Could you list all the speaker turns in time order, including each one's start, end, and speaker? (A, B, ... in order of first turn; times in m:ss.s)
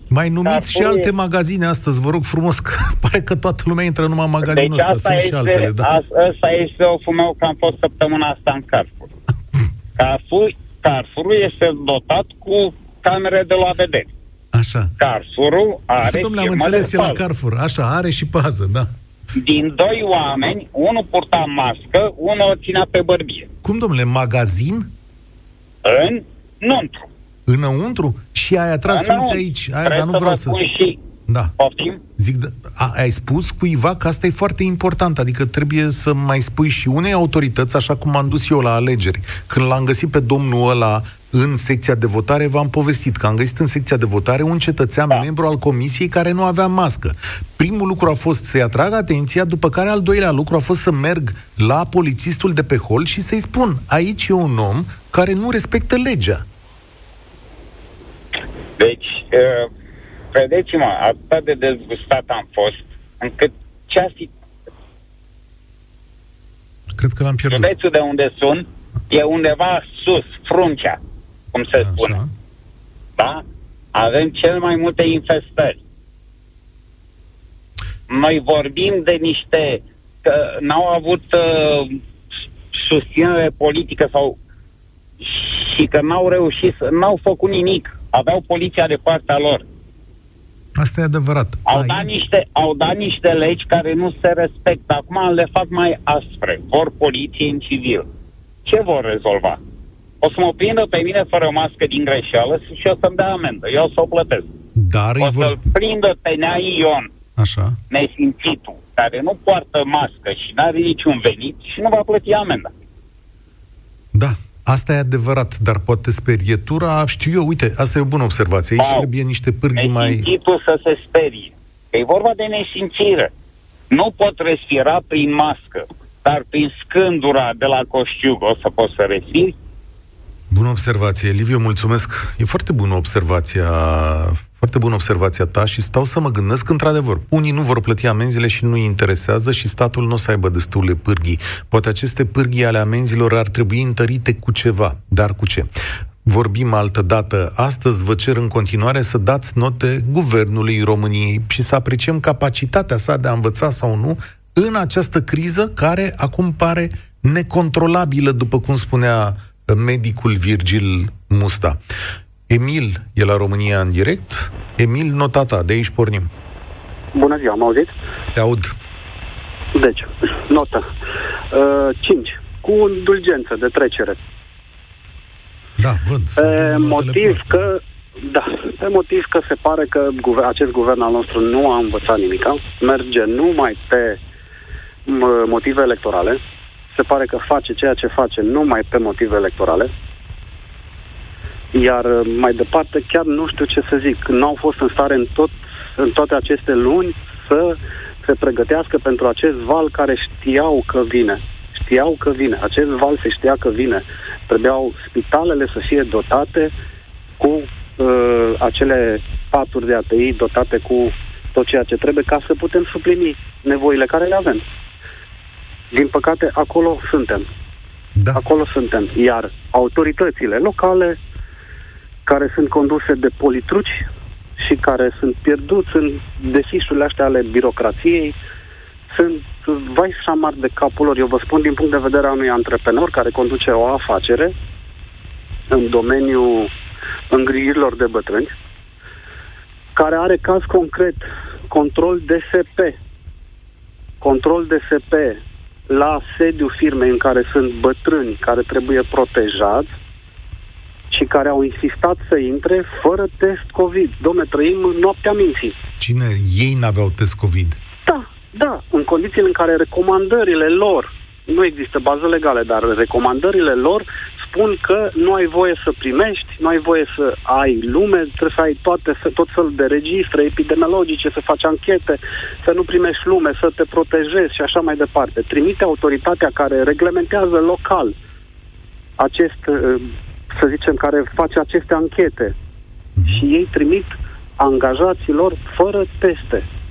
0:00.1-0:05.9 A
0:00.4-0:01.1 B
0:04.4-0:09.1 B
0:10.0-0:14.1 B
0:14.5-0:14.9 A
0:15.0-0:17.2 B
0:16.0-0:18.9 A
0:19.4-0:23.5 B
0:23.6-0:24.9 A
0:25.8-0:27.0 B
0:27.5-0:30.6 A
0:28.9-0:31.0 B
0:31.6-0:32.0 B
0:32.2-0:56.4 A
0:58.8-0:59.7 B
1:00.3-1:04.3 B
1:07.0-1:07.7 A
1:07.5-1:11.0 B
1:11.5-1:12.2 B
1:11.8-1:12.3 A
1:13.2-1:13.4 B
1:13.9-1:15.8 B
1:18.1-1:22.0 B
1:22.7-1:24.4 B
1:25.2-1:29.6 B
1:30.8-1:32.3 A
1:31.7-1:38.1 B
1:38.6-1:39.6 B
1:40.2-1:44.5 B
1:44.7-1:45.6 A
1:45.2-1:47.1 B
1:47.4-1:47.8 A
1:47.9-1:52.7 B
1:54.1-2:00.3 A
1:58.8-1:59.1 B
1:59.8-2:03.3 B
2:03.9-2:09.5 B
2:10.5-2:25.7 A
2:26.2-2:41.8 A
2:42.5-2:46.3 A
2:47.1-2:47.9 C
2:48.3-2:48.7 A
2:49.7-2:50.8 C
2:51.5-2:54.2 C
2:55.8-2:57.7 A
2:56.4-3:04.2 C
3:05.0-3:06.4 C
3:06.9-3:09.9 C
3:11.7-3:26.7 C
3:27.4-3:34.6 C
3:35.9-3:37.5 C
3:38.1-3:38.4 A
3:38.3-3:41.2 C
3:42.2-3:44.0 C
3:44.6-3:48.3 C
3:49.1-3:54.5 C
3:55.7-3:56.7 C
3:57.3-3:58.5 C
3:59.9-4:03.0 C
4:04.2-4:09.9 C
4:11.1-4:15.8 C
4:16.0-4:17.8 A
4:18.0-4:38.1 C
4:39.2-4:42.5 C
4:43.2-4:43.4 A
4:43.2-4:46.6 C